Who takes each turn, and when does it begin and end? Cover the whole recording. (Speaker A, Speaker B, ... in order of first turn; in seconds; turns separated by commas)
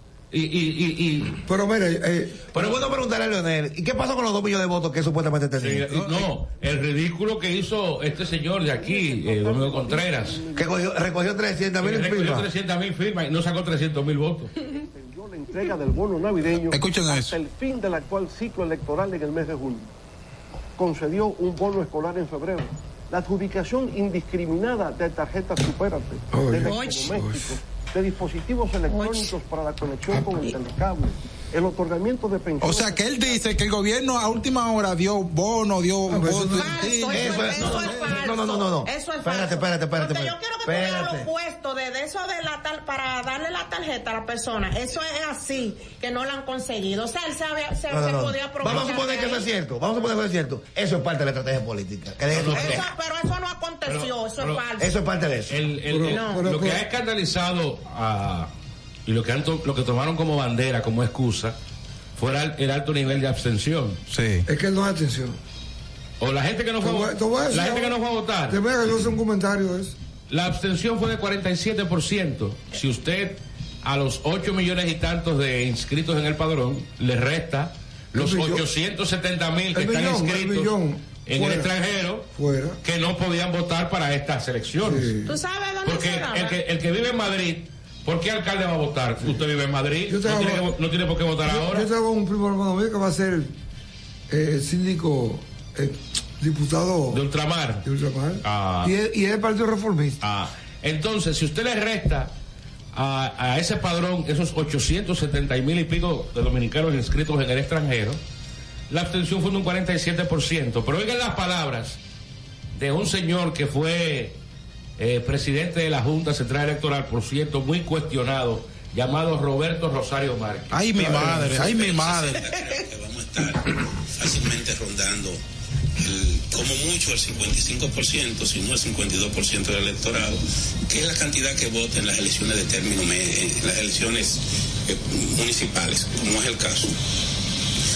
Speaker A: 0.3-1.4, Speaker B: 1.4-2.5, Speaker C: 2.5-6.0, Speaker A: 5.6-10.4, Speaker D: 8.8-11.0, Speaker C: 10.6-12.5, Speaker A: 11.8-14.5, Speaker D: 14.7-19.9, Speaker E: 16.7-17.4, Speaker D: 20.8-33.5, Speaker B: 26.3-27.6, Speaker F: 26.6-27.1, Speaker F: 28.9-29.4, Speaker E: 32.6-38.2, Speaker B: 36.1-36.9, Speaker F: 36.5-49.5, Speaker C: 37.1-41.3, Speaker C: 47.9-52.9, Speaker A: 52.3-52.9, Speaker F: 52.5-55.0, Speaker A: 53.9-54.6, Speaker C: 54.8-55.6, Speaker A: 55.5-58.5, Speaker B: 55.9-56.8, Speaker F: 56.1-56.5, Speaker A: 59.1-61.6, Speaker A: 62.2-64.0, Speaker E: 64.1-64.5, Speaker B: 64.5-65.4, Speaker A: 66.2-68.6, Speaker B: 66.8-70.0, Speaker A: 70.3-80.7, Speaker B: 78.1-78.7, Speaker B: 79.7-81.7, Speaker A: 81.3-82.3, Speaker B: 82.3-82.8, Speaker A: 82.8-85.1, Speaker B: 84.8-85.4, Speaker F: 85.3-86.6, Speaker A: 85.8-91.9, Speaker B: 90.1-90.7, Speaker B: 91.5-93.5, Speaker B: 94.3-97.2, Speaker A: 97.1-97.8, Speaker B: 97.8-100.2, Speaker A: 98.4-98.9, Speaker A: 100.2-102.3, Speaker A: 102.9-108.2, Speaker A: 108.9-112.0, Speaker A: 112.8-114.4, Speaker A: 115.0-121.7, Speaker E: 120.7-122.5, Speaker G: 121.5-125.4, Speaker G: 126.0-137.0